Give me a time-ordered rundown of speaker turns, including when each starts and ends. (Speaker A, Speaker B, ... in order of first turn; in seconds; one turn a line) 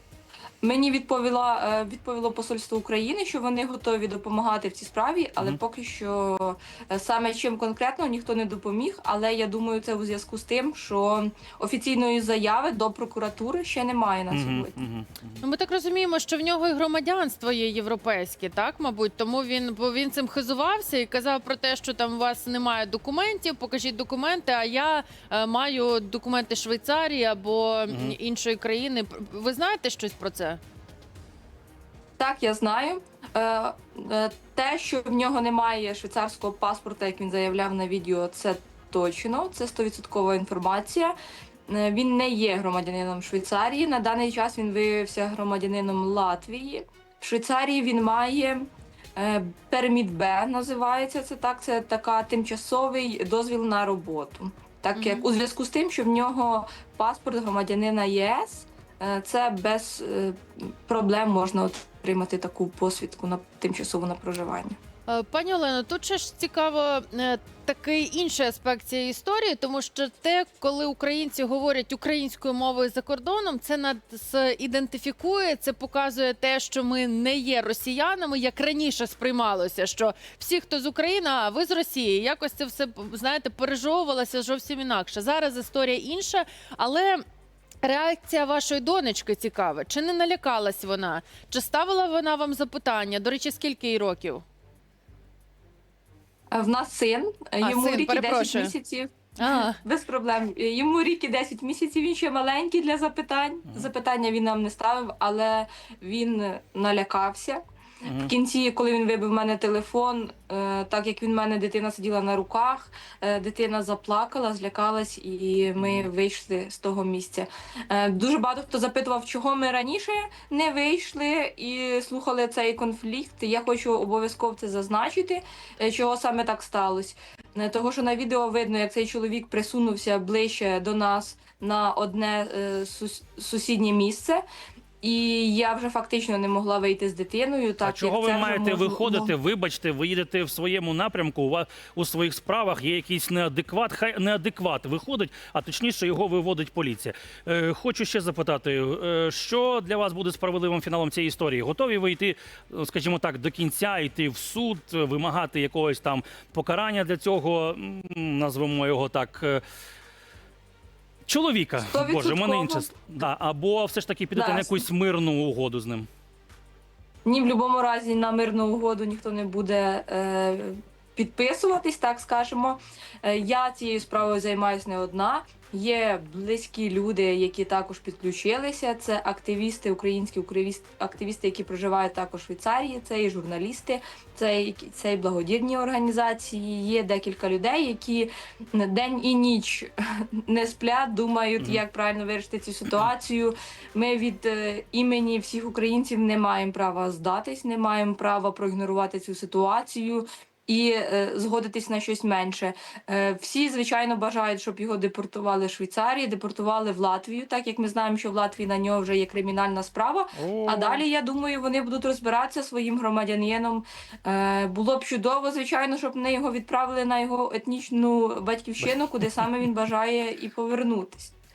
Speaker A: 0.6-14.8
Speaker B: 14.3-15.4
Speaker C: 15.4-30.6
Speaker B: 27.9-28.2
Speaker A: 32.2-41.1
Speaker A: 41.7-64.8
Speaker C: 55.0-55.2
Speaker C: 65.1-87.2
Speaker C: 87.8-94.4
Speaker A: 96.5-107.6
Speaker C: 97.6-98.8
Speaker C: 99.4-99.8
Speaker B: 108.0-108.3
Speaker A: 108.2-134.4
Speaker B: 115.8-116.1
Speaker A: 135.0-139.3
Speaker B: 137.8-159.6
Speaker B: 161.3-166.1
Speaker A: 161.8-163.0
Speaker A: 164.3-164.9
Speaker A: 167.3-189.9
Speaker A: 190.5-221.3
Speaker B: 210.4-211.0
Speaker B: 218.8-219.5